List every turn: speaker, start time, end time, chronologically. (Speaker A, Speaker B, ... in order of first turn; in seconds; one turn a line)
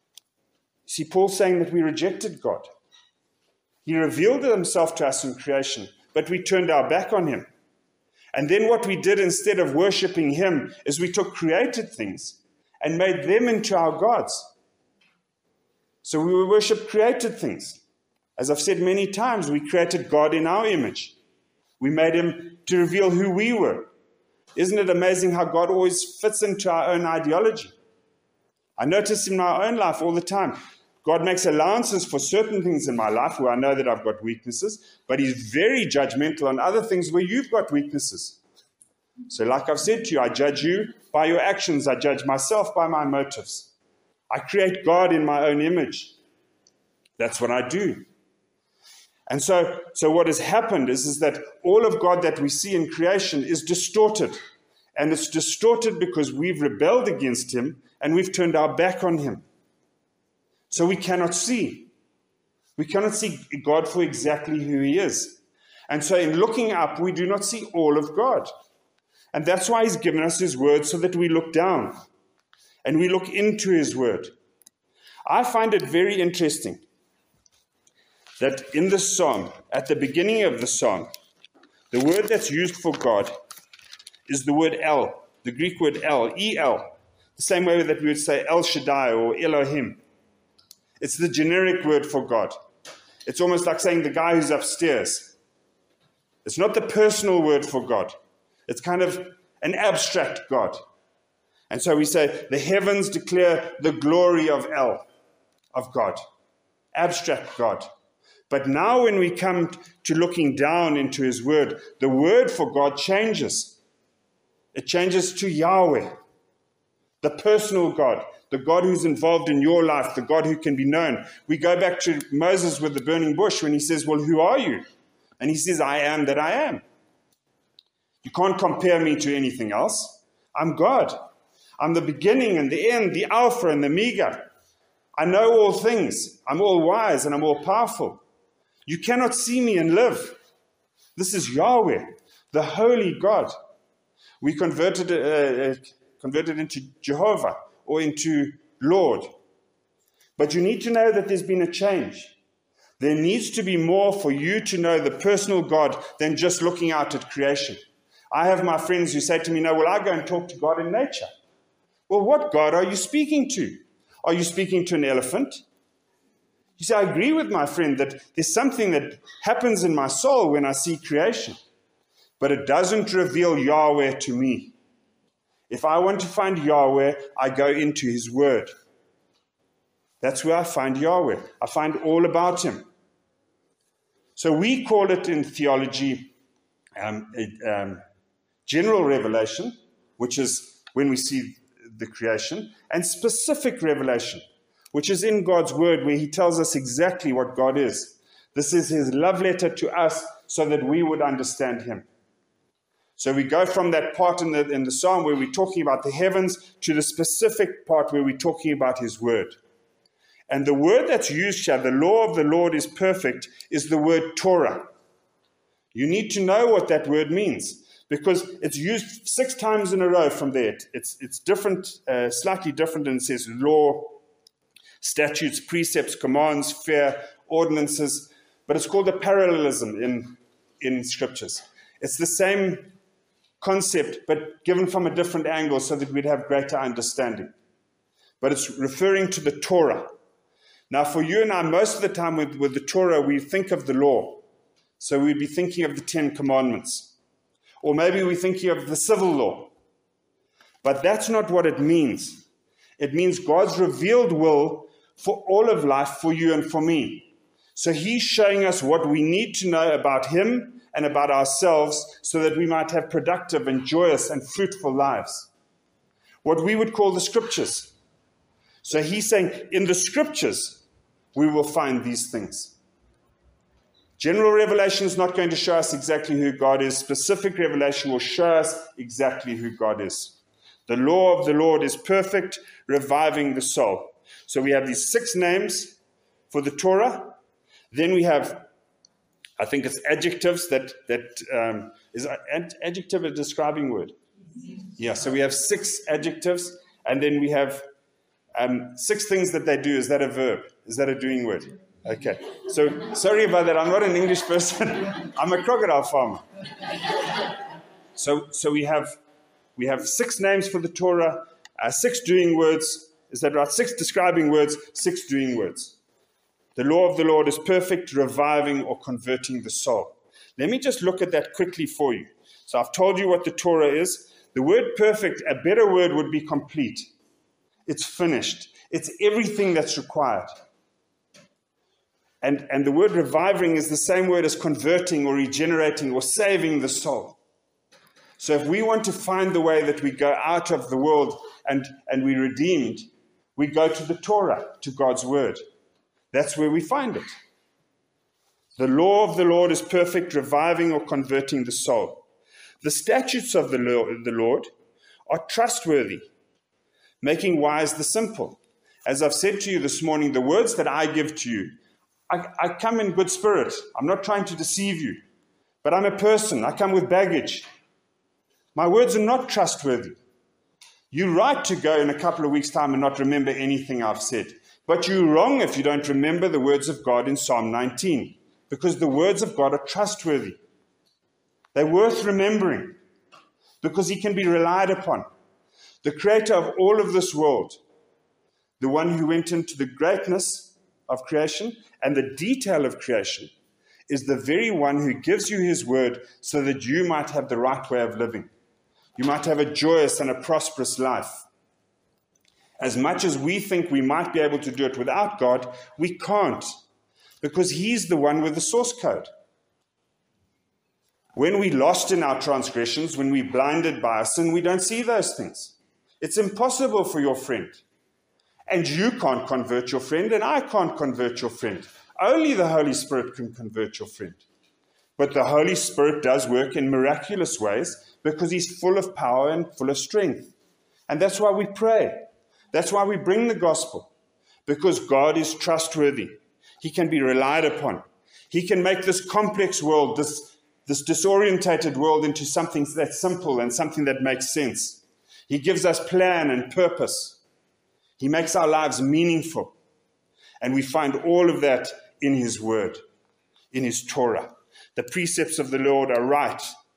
Speaker A: 0.9-2.7
Speaker A: 3.8-7.5
Speaker A: 8.3-14.5
Speaker A: 16.0-17.8
Speaker A: 18.4-21.1
Speaker A: 21.8-23.9
Speaker A: 24.5-27.7
Speaker A: 28.8-38.4
Speaker A: 39.3-43.7
Speaker A: 44.3-46.1
Speaker A: 47.2-48.0
Speaker A: 49.3-54.4
Speaker A: 54.9-59.4
Speaker A: 60.7-61.9
Speaker A: 62.8-68.5
Speaker A: 69.3-72.0
Speaker A: 72.8-74.3
Speaker A: 75.2-76.8
Speaker A: 78.4-81.1
Speaker A: 81.9-83.3
Speaker A: 84.3-90.0
Speaker A: 91.0-92.6
Speaker A: 93.2-95.3
Speaker A: 96.4-98.1
Speaker A: 98.7-100.8
Speaker A: 101.7-105.1
Speaker A: 105.7-106.2
Speaker A: 106.9-107.9
Speaker A: 108.5-113.8
Speaker A: 114.7-116.1
Speaker A: 117.2-124.8
Speaker A: 125.4-126.8
Speaker A: 128.2-131.3
Speaker A: 131.8-134.5
Speaker A: 135.2-138.2
Speaker A: 138.8-140.4
Speaker A: 141.2-143.5
Speaker A: 144.4-149.3
Speaker A: 150.4-152.3
Speaker A: 153.0-157.8
Speaker A: 158.3-161.3
Speaker A: 162.1-165.6
Speaker A: 166.8-171.6
Speaker A: 172.4-174.7
Speaker A: 175.7-178.7
Speaker A: 180.2-182.8
Speaker A: 184.3-186.3
Speaker A: 187.0-188.0
Speaker A: 188.7-202.1
Speaker A: 203.2-209.6
Speaker A: 210.5-214.9
Speaker A: 215.9-224.2
Speaker A: 225.0-232.9
Speaker A: 233.6-237.5
Speaker A: 238.4-240.1
Speaker A: 240.9-244.4
Speaker A: 245.0-247.1
Speaker A: 247.8-249.7
Speaker A: 250.8-252.4
Speaker A: 253.0-265.5
Speaker A: 266.4-267.9
Speaker A: 268.8-270.8
Speaker A: 271.3-272.7
Speaker A: 274.2-285.9
Speaker A: 286.5-287.4
Speaker A: 287.9-288.7
Speaker A: 289.6-294.2
Speaker A: 295.0-297.8
Speaker A: 298.5-306.4
Speaker A: 308.1-309.2
Speaker A: 309.8-315.9
Speaker A: 316.8-327.1
Speaker A: 327.9-330.5
Speaker A: 332.4-337.4
Speaker A: 338.4-345.6
Speaker A: 346.3-347.3
Speaker A: 348.8-352.2
Speaker A: 352.8-354.7
Speaker A: 355.3-356.2
Speaker A: 357.2-361.7
Speaker A: 362.3-365.2
Speaker A: 365.8-367.6
Speaker A: 368.7-370.2
Speaker A: 371.1-380.6
Speaker A: 381.7-383.0
Speaker A: 383.8-385.2
Speaker A: 386.0-387.8
Speaker A: 388.8-393.5
Speaker A: 394.1-398.5
Speaker A: 399.1-401.4
Speaker A: 402.8-406.7
Speaker A: 407.4-409.3
Speaker A: 411.3-417.8
Speaker A: 418.7-424.4
Speaker A: 425.2-430.5
Speaker A: 431.1-434.1
Speaker A: 434.6-447.4
Speaker A: 448.2-449.7
Speaker A: 450.6-453.0
Speaker A: 453.7-456.7